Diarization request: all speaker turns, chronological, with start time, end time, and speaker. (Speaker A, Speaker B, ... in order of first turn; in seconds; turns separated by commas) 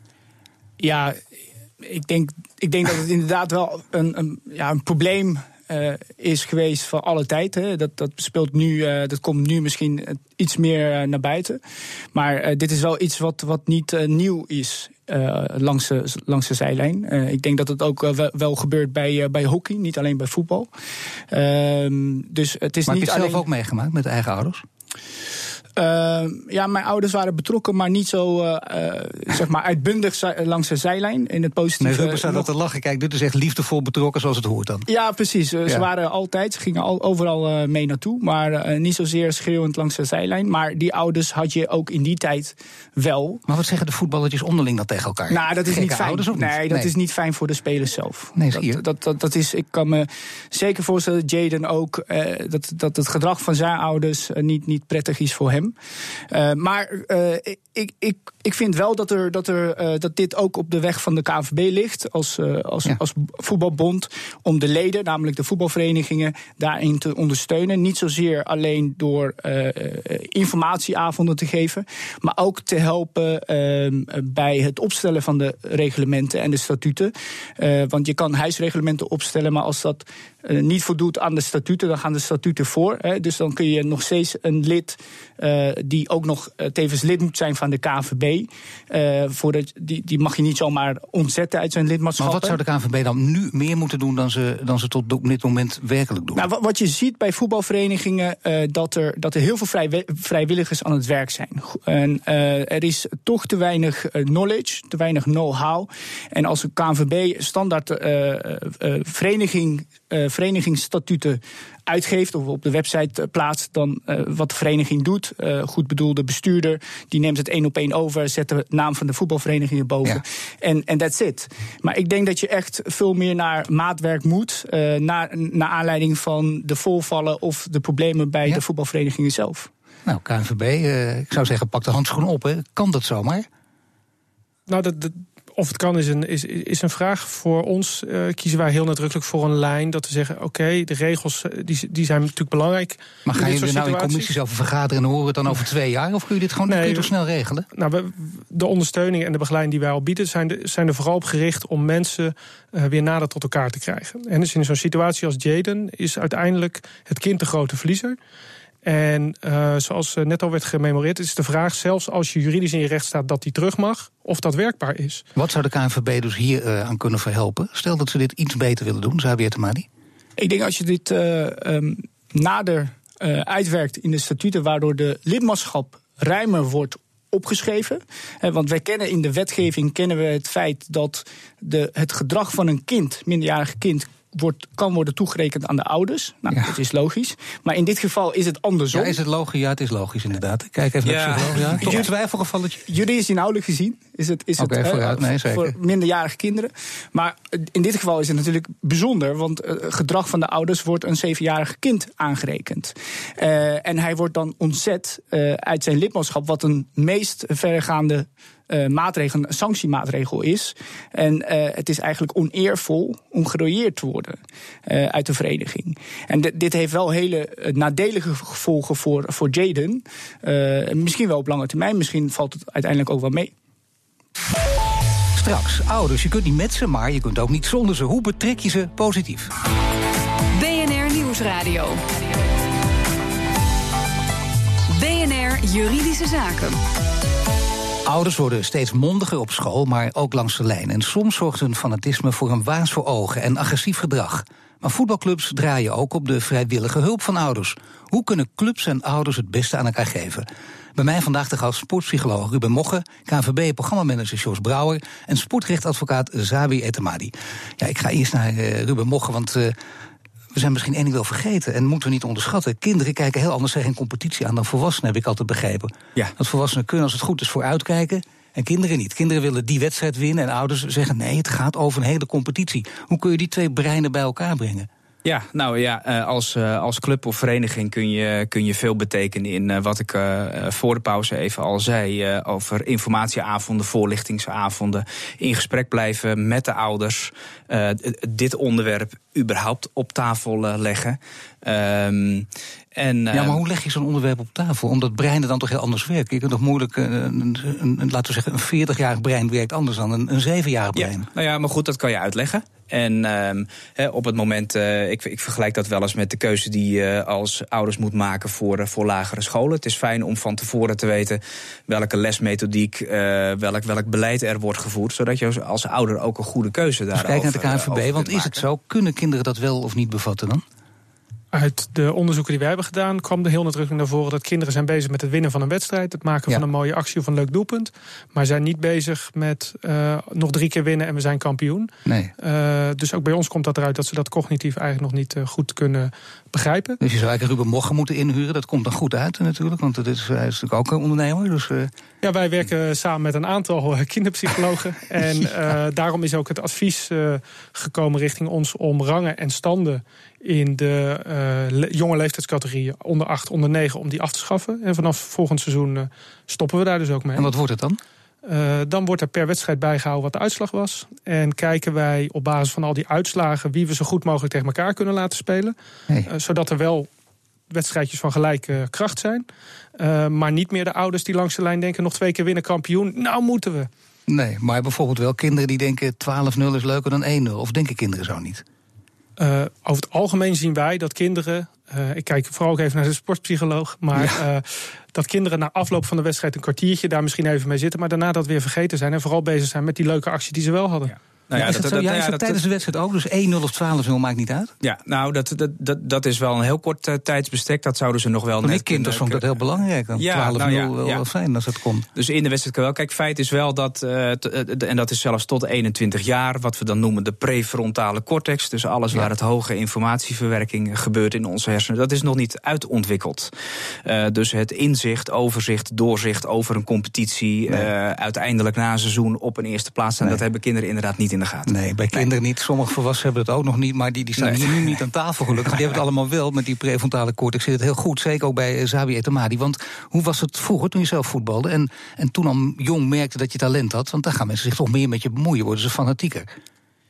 Speaker A: 0.8-1.2, Speaker A: 1.8-11.6, Speaker A: 12.1-20.7, Speaker A: 21.3-23.4, Speaker B: 22.9-24.6, Speaker A: 25.8-32.5, Speaker B: 31.8-34.9, Speaker A: 34.9-43.4, Speaker B: 43.5-46.9, Speaker A: 45.3-55.7, Speaker B: 48.4-48.8, Speaker A: 56.3-92.6, Speaker B: 92.2-96.5, Speaker A: 96.3-129.7, Speaker B: 130.1-133.5, Speaker C: 134.7-144.3, Speaker B: 143.2-147.7, Speaker C: 146.7-147.1, Speaker C: 147.7-158.2, Speaker C: 158.8-165.2, Speaker B: 165.3-169.9, Speaker A: 170.4-189.2, Speaker B: 188.9-192.8, Speaker D: 191.0-192.1, Speaker A: 192.8-223.5, Speaker B: 194.6-195.7, Speaker B: 225.3-229.5, Speaker E: 230.5-232.0, Speaker E: 234.9-236.8, Speaker B: 238.1-259.7, Speaker B: 260.5-274.9, Speaker D: 275.2-293.6, Speaker B: 293.3-301.3, Speaker D: 300.9-318.6, Speaker B: 317.1-320.6, Speaker C: 321.5-337.0, Speaker B: 332.1-332.3, Speaker B: 337.0-341.9, Speaker C: 342.2-357.5, Speaker B: 357.3-358.0, Speaker C: 358.4-365.7, Speaker C: 366.2-367.1, Speaker C: 367.7-369.4, Speaker C: 370.0-373.9, Speaker B: 374.3-378.6, Speaker C: 379.4-391.1, Speaker B: 384.1-384.4, Speaker D: 391.5-392.6, Speaker B: 391.5-394.7, Speaker D: 394.8-399.4, Speaker B: 398.6-402.1, Speaker D: 400.2-401.2, Speaker D: 402.1-413.5, Speaker D: 414.0-422.3, Speaker B: 421.6-436.5, Speaker D: 424.4-425.0